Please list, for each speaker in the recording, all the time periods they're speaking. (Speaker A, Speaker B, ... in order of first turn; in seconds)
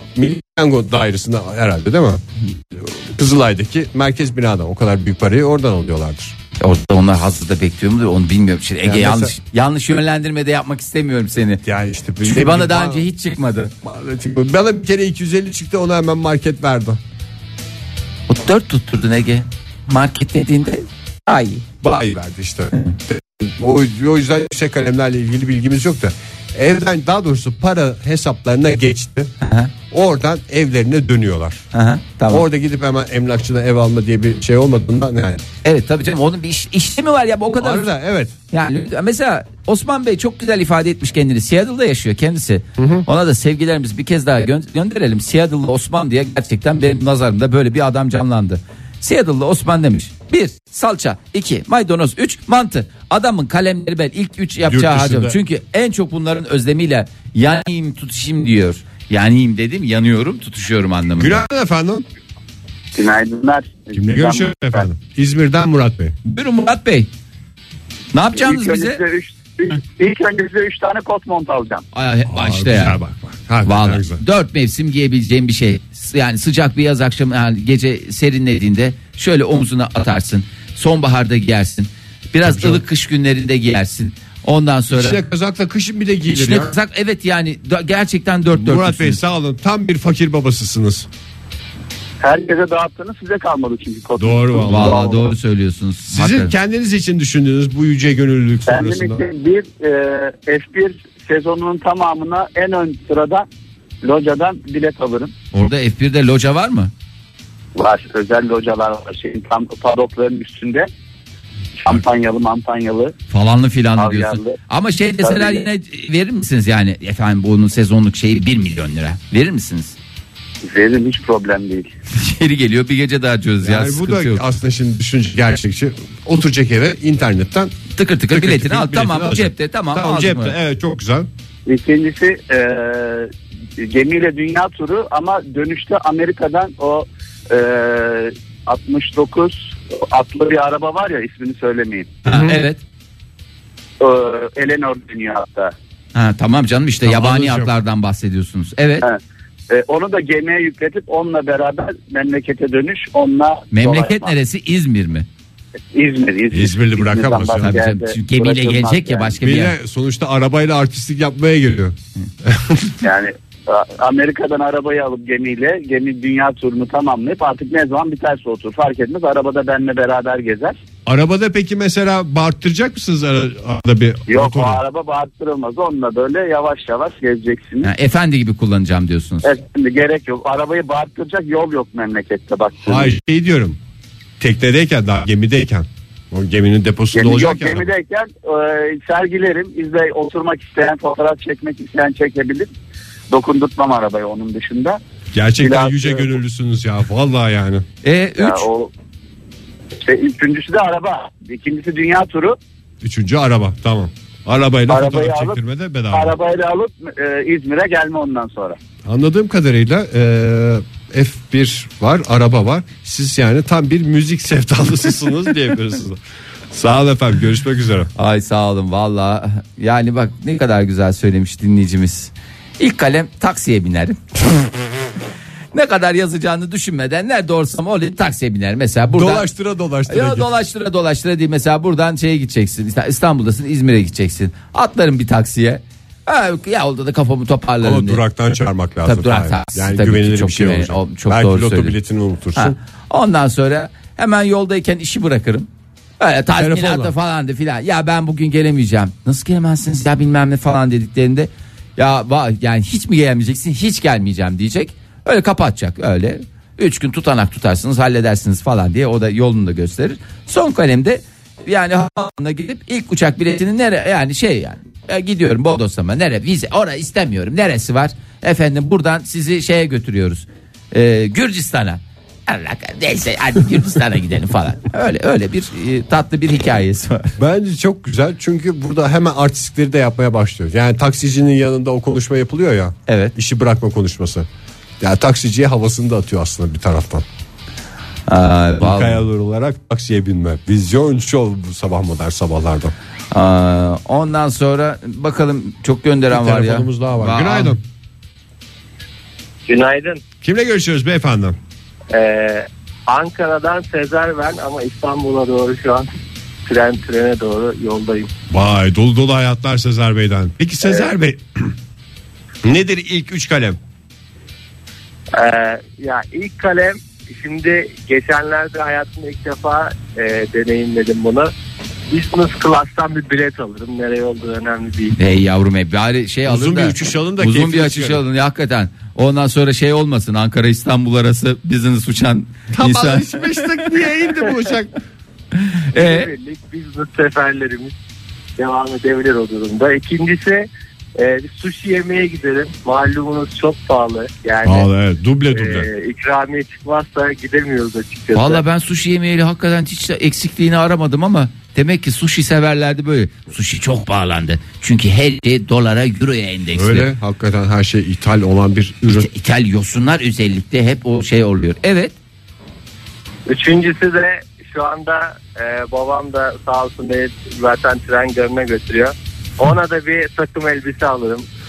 Speaker A: 0.1-6.3, 8.8-9.3, 11.6-13.0, 13.8-17.0, 21.8-29.3, 29.9-31.6, 32.3-35.4, 37.6-38.3, 42.8-43.0, 54.6-55.4, 61.2-62.0, 63.9-66.1, 72.3-74.2, 82.4-82.8, 84.9-86.7, 88.5-91.1, 94.2-95.2, 96.1-99.2, 123.6-127.7, 128.3-131.3, 142.2-142.6, 147.0-147.7, 156.5-157.8, 159.4-163.0, 171.1-174.8, 182.8-183.8, 184.4-187.9, 195.3-197.8, 203.0-206.3, 209.1-216.2, 216.7-218.1, 229.1-230.5, 237.8-242.8, 246.6-247.1, 277.4-284.5, 285.0-287.2, 288.8-292.9, 296.3-297.8, 300.4-301.6, 308.5-311.7, 312.6-313.8, 326.4-328.2, 332.7-334.9, 344.6-345.9, 356.7-359.3
Speaker B: 6.6-11.6, 12.2-13.7, 18.3-22.0, 29.4-29.7, 31.7-32.5, 35.6-37.9, 38.5-61.4, 66.2-67.1, 68.1-69.0, 71.9-73.0, 73.6-85.2, 86.3-89.2, 94.6-96.5, 105.5-106.9, 113.3-120.0, 122.1-124.4, 128.0-130.5, 142.2-142.8, 146.1-149.1, 153.7-155.2, 157.6-159.8, 177.8-179.5, 198.0-198.7, 218.2-224.2, 225.7-229.5, 230.1-238.2, 239.0-241.9, 242.6-245.7, 246.2-277.3, 283.1-283.3, 288.3-289.2, 293.3-297.8, 325.2-333.9, 335.6-336.3, 348.3-357.1, 359.1-362.1
Speaker C: 62.9-64.8, 68.3-71.8, 92.2-95.2, 98.7-103.5, 104.0-105.3, 107.7-110.9, 111.8-113.1, 114.0-114.6, 115.2-115.6, 120.6-121.9, 131.7-142.1, 144.0-145.7, 149.0-154.3, 155.9-159.4, 163.0-170.8, 174.3-177.9, 179.4-183.1, 187.1-192.7, 193.3-195.0, 195.6-196.3, 198.4-198.9, 200.0-202.6, 204.9-205.6, 206.1-208.8
Speaker D: 299.6-300.2, 302.1-306.1, 306.6-308.3, 315.3-321.5, 322.1-325.1, 335.9-337.9, 338.6-344.9, 345.5-348.6, 363.5-371.4